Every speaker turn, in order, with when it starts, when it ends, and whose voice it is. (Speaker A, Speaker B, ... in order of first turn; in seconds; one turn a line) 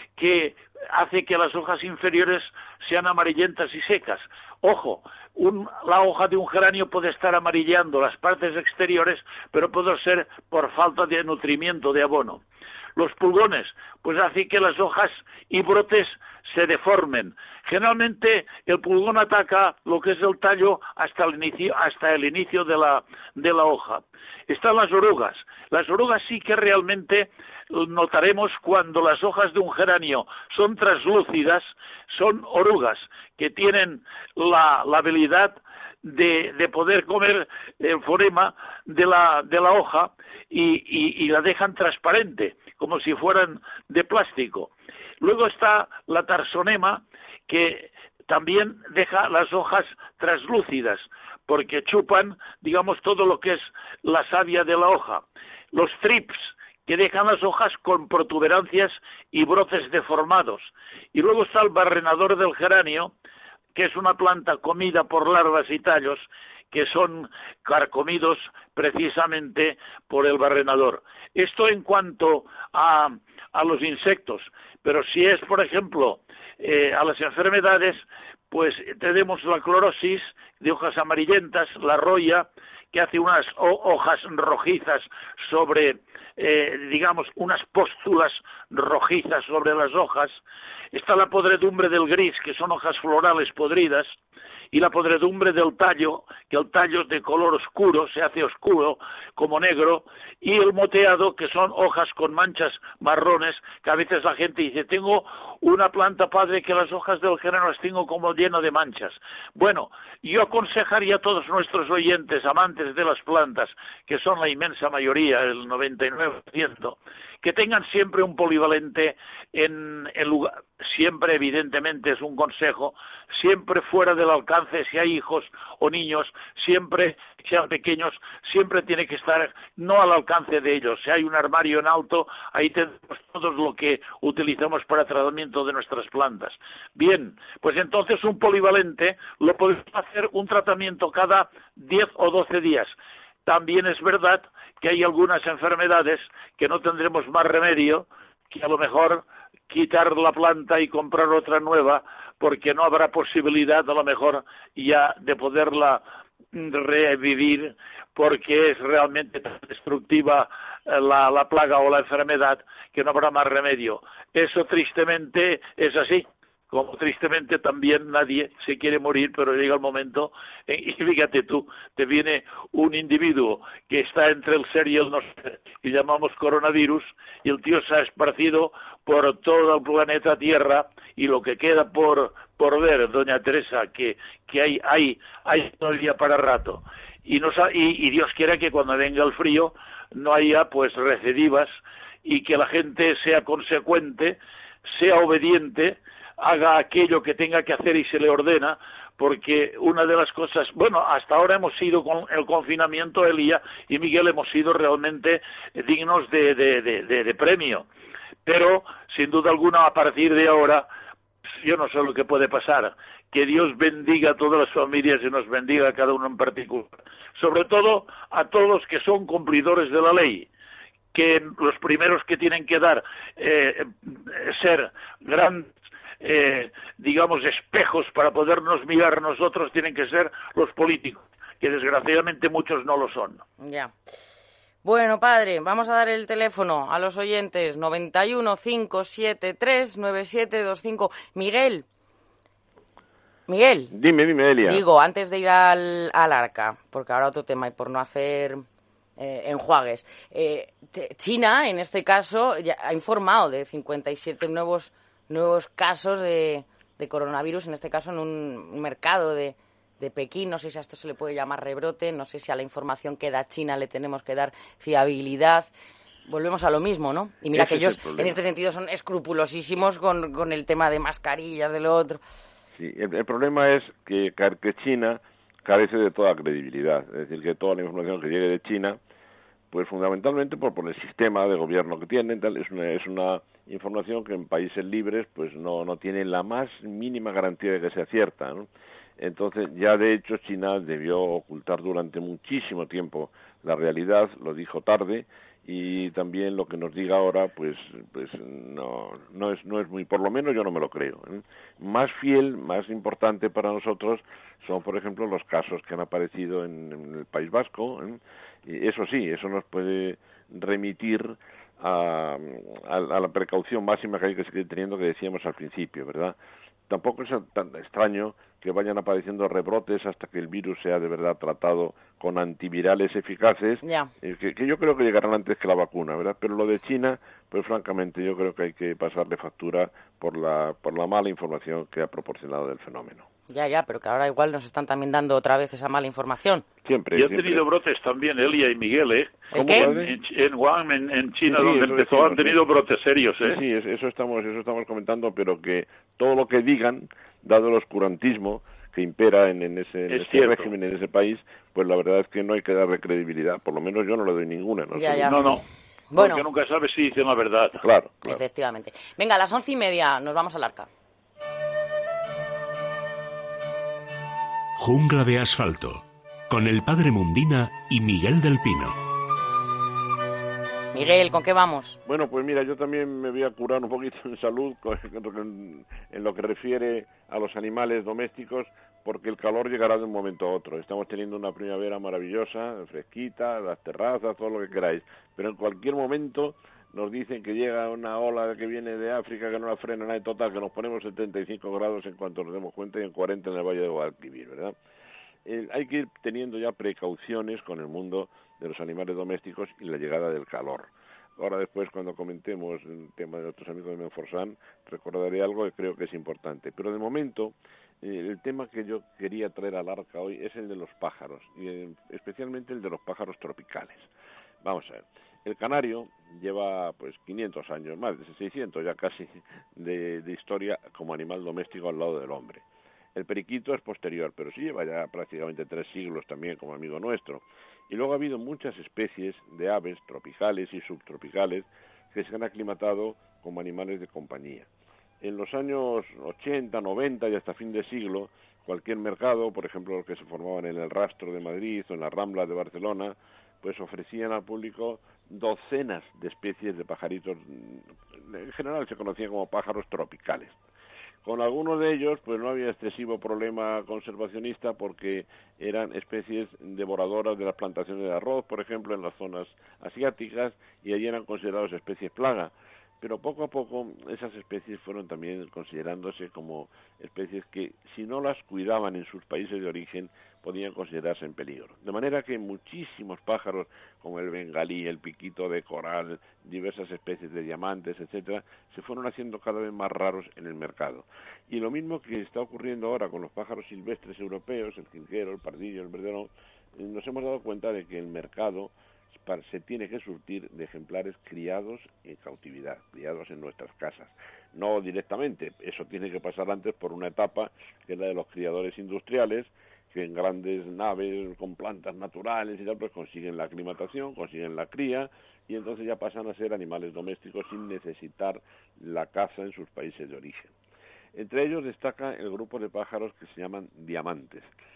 Speaker A: 0.2-12.4
Speaker A: 13.0-63.1
Speaker A: 63.8-90.4
Speaker A: 90.9-94.1
Speaker A: 94.7-142.9
Speaker A: 143.4-156.0
Speaker A: 156.5-207.9
Speaker A: 208.4-210.9
Speaker A: 211.6-220.5
Speaker A: 221.1-233.4
Speaker B: 233.6-233.9
Speaker B: 234.8-241.8
Speaker B: 243.5-243.9
Speaker C: 243.9-244.8
Speaker B: 244.6-248.6
Speaker B: 249.2-265.7
Speaker B: 266.3-272.2
Speaker C: 267.5-268.4
Speaker C: 272.7-279.0
Speaker C: 279.7-316.4
Speaker C: 316.9-333.3
Speaker B: 323.8-324.1
Speaker B: 333.5-336.6
Speaker C: 336.8-337.6
Speaker A: 337.1-343.6
Speaker B: 339.5-339.9
Speaker C: 339.5-340.1
Speaker C: 341.4-342.6
Speaker C: 343.4-355.4
Speaker A: 350.1-350.7
Speaker B: 354.9-355.4
Speaker A: 355.3-355.6
Speaker B: 356.1-356.5
Speaker A: 356.2-357.8
Speaker C: 357.8-358.4
Speaker B: 358.2-360.9
Speaker D: 364.8-368.9
Speaker B: 370.9-372.0
Speaker C: 372.1-394.8
Speaker C: 395.5-414.1
Speaker C: 414.6-434.7
Speaker C: 435.2-450.6
Speaker C: 451.2-510.5
Speaker C: 511.1-514.5